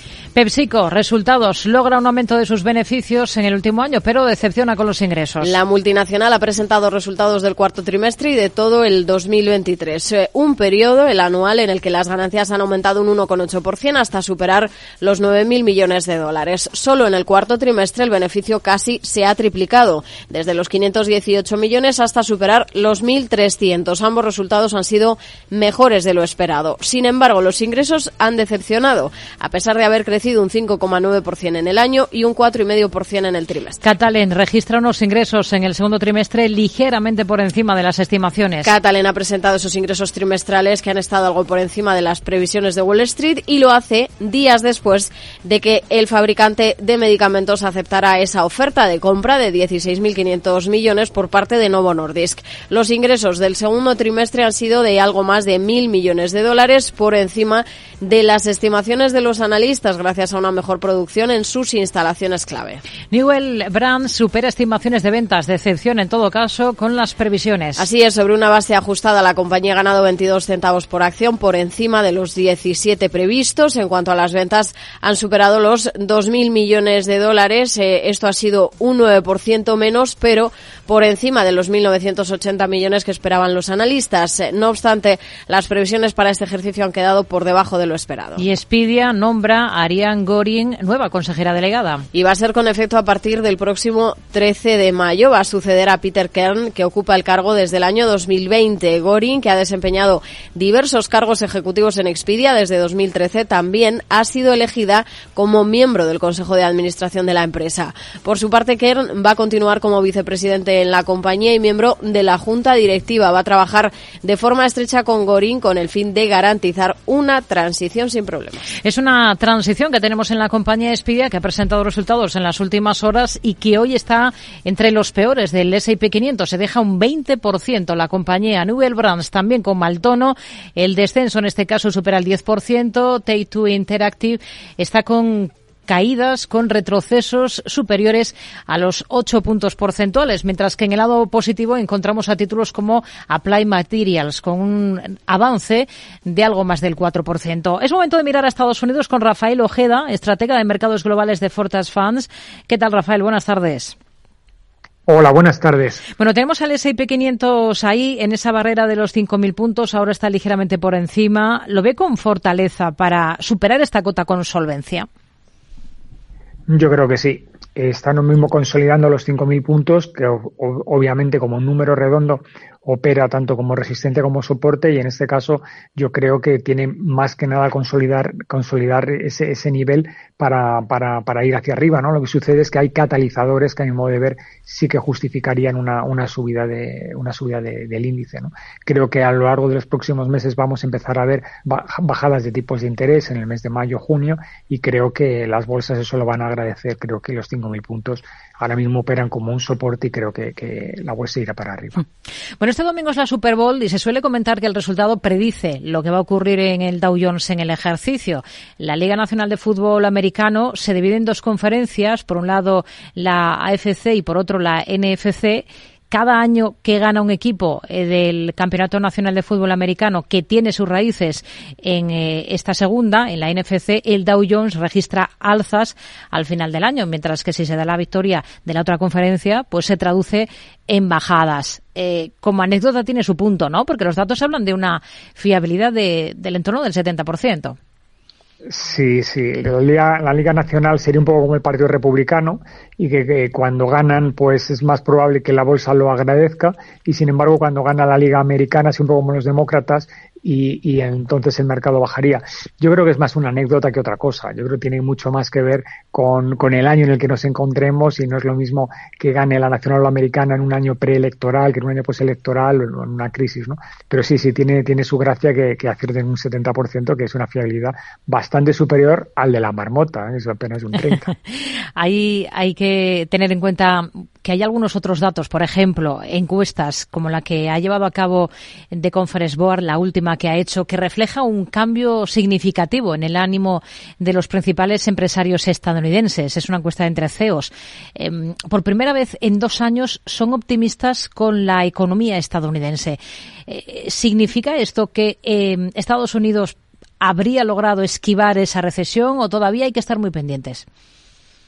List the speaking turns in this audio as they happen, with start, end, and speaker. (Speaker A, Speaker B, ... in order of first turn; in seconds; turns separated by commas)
Speaker A: 0.3-5.6, Speaker B: 5.4-33.8, Speaker A: 33.8-38.7, Speaker B: 38.6-62.8, Speaker A: 63.1-67.8, Speaker B: 67.8-88.4, Speaker A: 88.4-92.0, Speaker B: 92.1-118.7, Speaker A: 118.8-153.9, Speaker C: 155.1-156.0, Speaker A: 156.2-165.1, Speaker C: 166.7-202.0, Speaker A: 202.6-237.8, Speaker C: 238.7-271.3, Speaker A: 272.0-300.9